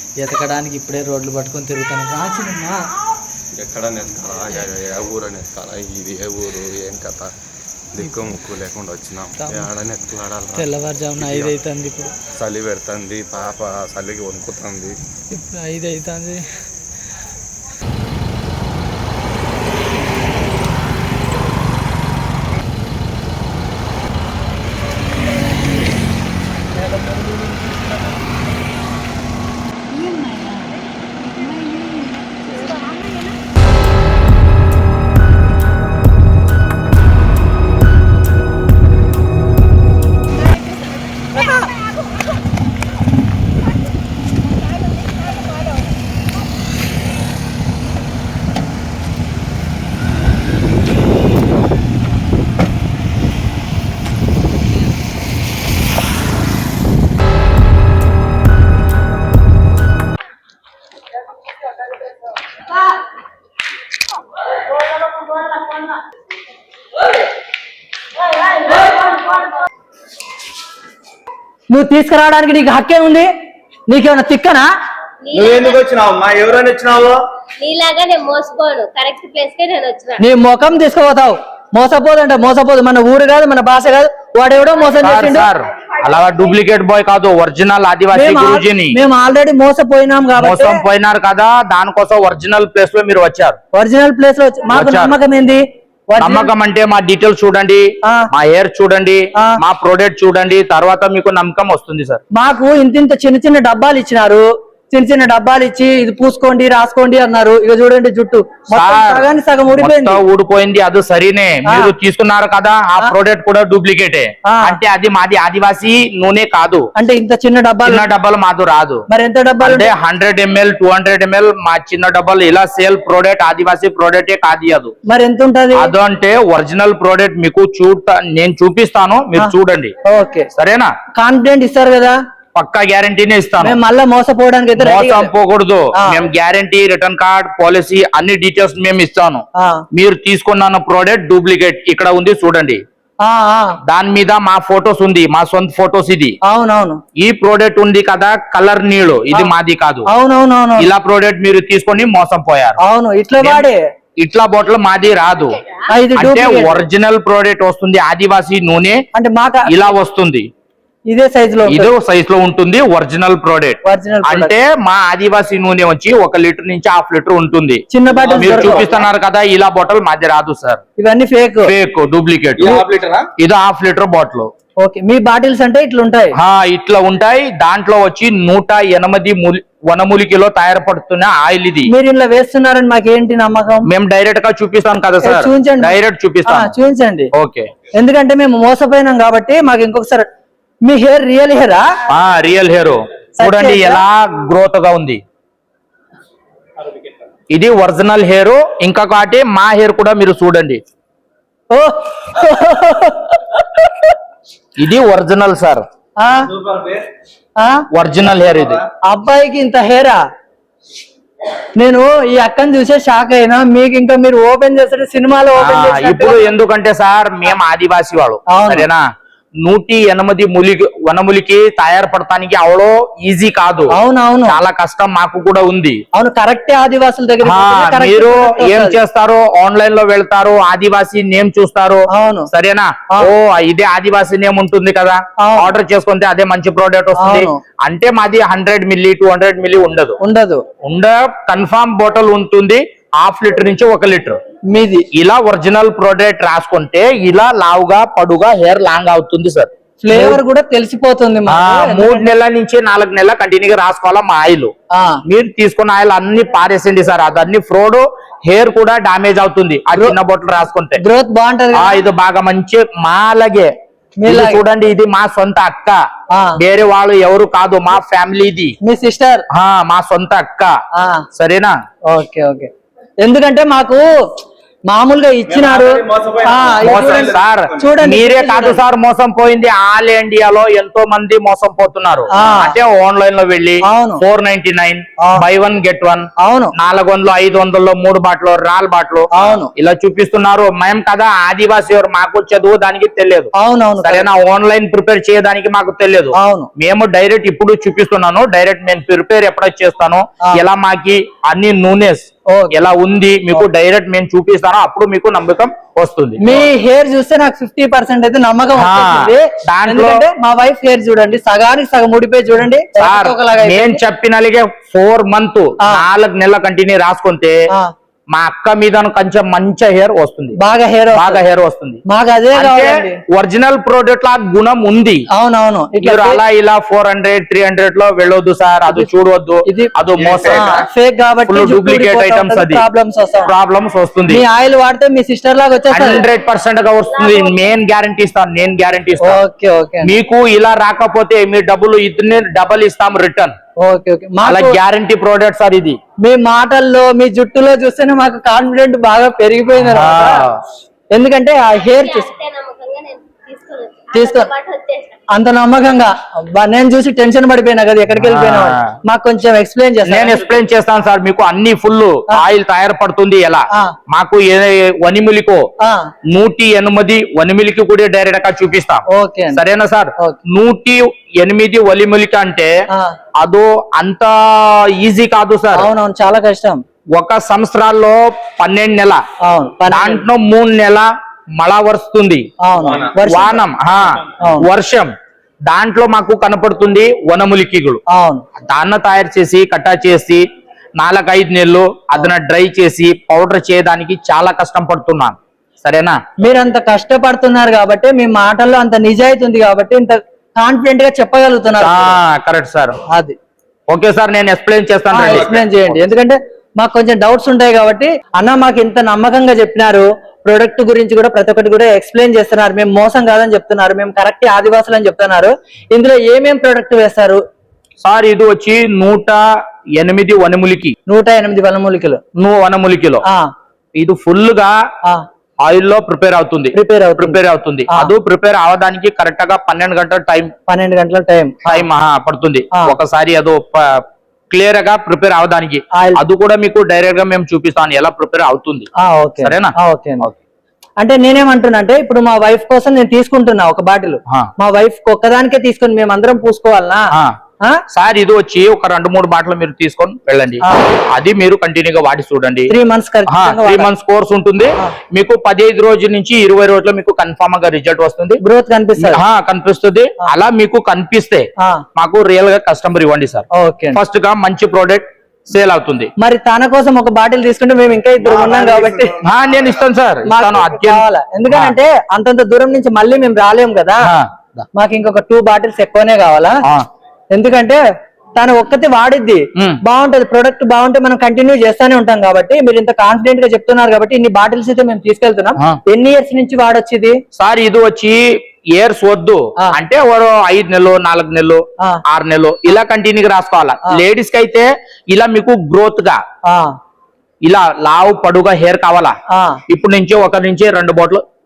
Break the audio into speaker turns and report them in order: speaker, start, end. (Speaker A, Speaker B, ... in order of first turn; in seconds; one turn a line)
Speaker A: 0.2-2.8
Speaker B: 3.5-7.3
Speaker B: 7.9-11.6
Speaker A: 8.0-8.3
Speaker A: 9.4-9.7
Speaker A: 10.5-12.2
Speaker B: 12.3-15.0
Speaker A: 15.3-16.4
Speaker C: 71.7-73.3
Speaker C: 73.9-74.7
Speaker D: 75.2-75.8
Speaker E: 75.3-77.2
Speaker D: 77.6-80.2
Speaker C: 80.2-85.5
Speaker F: 85.0-89.0
Speaker C: 88.1-90.8
Speaker F: 90.4-93.6
Speaker C: 93.7-96.5
Speaker F: 94.7-95.2
Speaker F: 96.2-102.2
Speaker C: 98.0-98.3
Speaker C: 102.3-110.2
Speaker F: 108.7-116.9
Speaker C: 111.7-111.9
Speaker C: 114.5-114.8
Speaker C: 117.0-118.1
Speaker F: 117.8-119.0
Speaker C: 119.1-119.9
Speaker F: 119.6-124.9
Speaker C: 125.1-125.9
Speaker F: 125.7-129.9
Speaker C: 130.1-130.5
Speaker F: 130.5-130.9
Speaker C: 131.2-132.2
Speaker F: 132.6-133.8
Speaker C: 133.6-135.3
Speaker F: 134.8-142.8
Speaker C: 135.9-136.2
Speaker C: 139.6-139.8
Speaker C: 143.2-143.8
Speaker F: 143.9-146.4
Speaker C: 146.4-147.0
Speaker F: 147.2-150.1
Speaker C: 150.1-150.9
Speaker F: 150.8-152.8
Speaker C: 152.8-153.8
Speaker F: 153.4-153.7
Speaker F: 154.2-155.6
Speaker C: 155.9-156.8
Speaker F: 156.2-159.1
Speaker C: 159.1-159.8
Speaker F: 159.7-160.5
Speaker C: 161.1-161.9
Speaker F: 161.7-170.8
Speaker C: 163.8-164.5
Speaker C: 167.9-168.9
Speaker E: 168.1-169.1
Speaker C: 171.0-171.7
Speaker F: 171.6-172.8
Speaker E: 172.6-173.3
Speaker F: 173.4-174.5
Speaker C: 174.8-176.4
Speaker F: 176.4-181.9
Speaker C: 181.9-183.9
Speaker F: 183.9-186.7
Speaker C: 185.2-187.3
Speaker F: 187.3-187.7
Speaker C: 187.9-190.3
Speaker C: 190.8-191.9
Speaker F: 192.1-195.2
Speaker C: 193.4-194.0
Speaker E: 196.8-197.1
Speaker F: 197.5-200.8
Speaker C: 201.7-204.2
Speaker F: 204.8-205.8
Speaker C: 206.2-206.5
Speaker E: 206.5-207.1
Speaker C: 207.6-207.8
Speaker F: 207.9-208.8
Speaker E: 208.3-208.8
Speaker C: 209.0-210.2
Speaker C: 211.8-216.5
Speaker F: 215.6-219.1
Speaker C: 218.5-218.9
Speaker F: 219.6-223.9
Speaker C: 223.9-224.6
Speaker F: 224.5-226.0
Speaker C: 226.1-229.0
Speaker F: 227.4-240.2
Speaker C: 232.1-232.5
Speaker C: 235.4-235.7
Speaker C: 237.2-237.6
Speaker C: 240.2-240.6
Speaker F: 240.8-244.4
Speaker C: 244.7-245.1
Speaker F: 245.1-250.4
Speaker C: 250.0-252.3
Speaker F: 251.5-254.7
Speaker C: 254.9-255.2
Speaker F: 255.3-261.0
Speaker C: 261.0-262.0
Speaker F: 261.7-263.7
Speaker C: 264.2-264.6
Speaker F: 264.3-266.0
Speaker C: 266.3-266.6
Speaker F: 266.6-268.8
Speaker C: 268.8-269.5
Speaker F: 269.5-270.8
Speaker C: 270.9-271.3
Speaker F: 271.4-271.8
Speaker C: 272.1-272.7
Speaker C: 273.2-274.1
Speaker C: 274.9-278.8
Speaker E: 275.5-277.8
Speaker F: 276.8-306.6
Speaker C: 282.3-282.8
Speaker C: 283.9-284.2
Speaker C: 285.2-285.4
Speaker C: 286.4-286.7
Speaker C: 289.3-289.7
Speaker C: 293.6-294.3
Speaker C: 296.4-296.7
Speaker C: 306.4-314.0
Speaker F: 308.8-310.2
Speaker F: 313.0-317.6
Speaker F: 318.3-320.6
Speaker C: 320.6-321.4
Speaker F: 321.1-322.0
Speaker C: 322.1-323.2
Speaker F: 322.5-325.3
Speaker C: 325.3-326.4
Speaker F: 326.0-330.8
Speaker C: 329.7-329.9
Speaker E: 330.2-330.9
Speaker C: 330.5-333.5
Speaker F: 331.5-332.8
Speaker F: 333.5-334.4
Speaker C: 334.3-336.2
Speaker F: 335.9-339.4
Speaker D: 336.0-336.3
Speaker D: 337.2-337.7
Speaker C: 339.2-340.1
Speaker F: 340.0-343.6
Speaker C: 343.8-344.8
Speaker F: 344.4-346.0
Speaker C: 346.2-350.4
Speaker F: 349.8-350.6
Speaker C: 351.1-352.3
Speaker D: 351.9-355.2
Speaker C: 354.1-354.5
Speaker C: 355.3-360.4
Speaker F: 358.1-358.9
Speaker F: 360.1-365.7
Speaker C: 365.8-366.1
Speaker F: 366.3-372.8
Speaker C: 369.1-369.6
Speaker C: 372.9-373.2
Speaker F: 373.4-375.9
Speaker C: 375.7-376.8
Speaker F: 377.1-379.2
Speaker C: 379.4-380.2
Speaker F: 379.9-385.1
Speaker C: 382.6-383.6
Speaker E: 382.8-383.1
Speaker C: 384.4-384.7
Speaker F: 385.7-388.0
Speaker C: 388.1-388.4
Speaker F: 388.6-390.4
Speaker F: 391.0-396.2
Speaker C: 396.4-402.2
Speaker F: 401.8-402.9
Speaker C: 403.1-403.4
Speaker F: 403.9-405.6
Speaker C: 405.1-417.4
Speaker E: 405.2-406.0
Speaker F: 418.0-419.5
Speaker F: 420.0-420.9
Speaker C: 421.1-422.2
Speaker F: 422.4-423.2
Speaker F: 423.9-424.8
Speaker F: 425.6-430.5
Speaker C: 426.7-428.1
Speaker C: 430.7-431.9
Speaker F: 431.7-438.9
Speaker C: 435.9-436.2
Speaker C: 439.0-440.3
Speaker F: 439.4-440.4
Speaker C: 441.0-447.1
Speaker F: 447.9-452.7
Speaker C: 450.6-450.9
Speaker C: 452.7-453.9
Speaker F: 453.3-458.4
Speaker C: 458.4-459.2
Speaker F: 459.0-466.1
Speaker C: 463.5-464.0
Speaker C: 466.2-469.2
Speaker E: 468.2-469.2
Speaker F: 469.2-471.8
Speaker C: 470.3-474.1
Speaker F: 474.0-474.6
Speaker C: 474.8-476.6
Speaker C: 477.3-477.8
Speaker C: 478.4-487.2
Speaker F: 487.4-496.2
Speaker C: 496.5-496.8
Speaker F: 497.4-499.2
Speaker C: 499.3-499.6
Speaker F: 499.7-501.2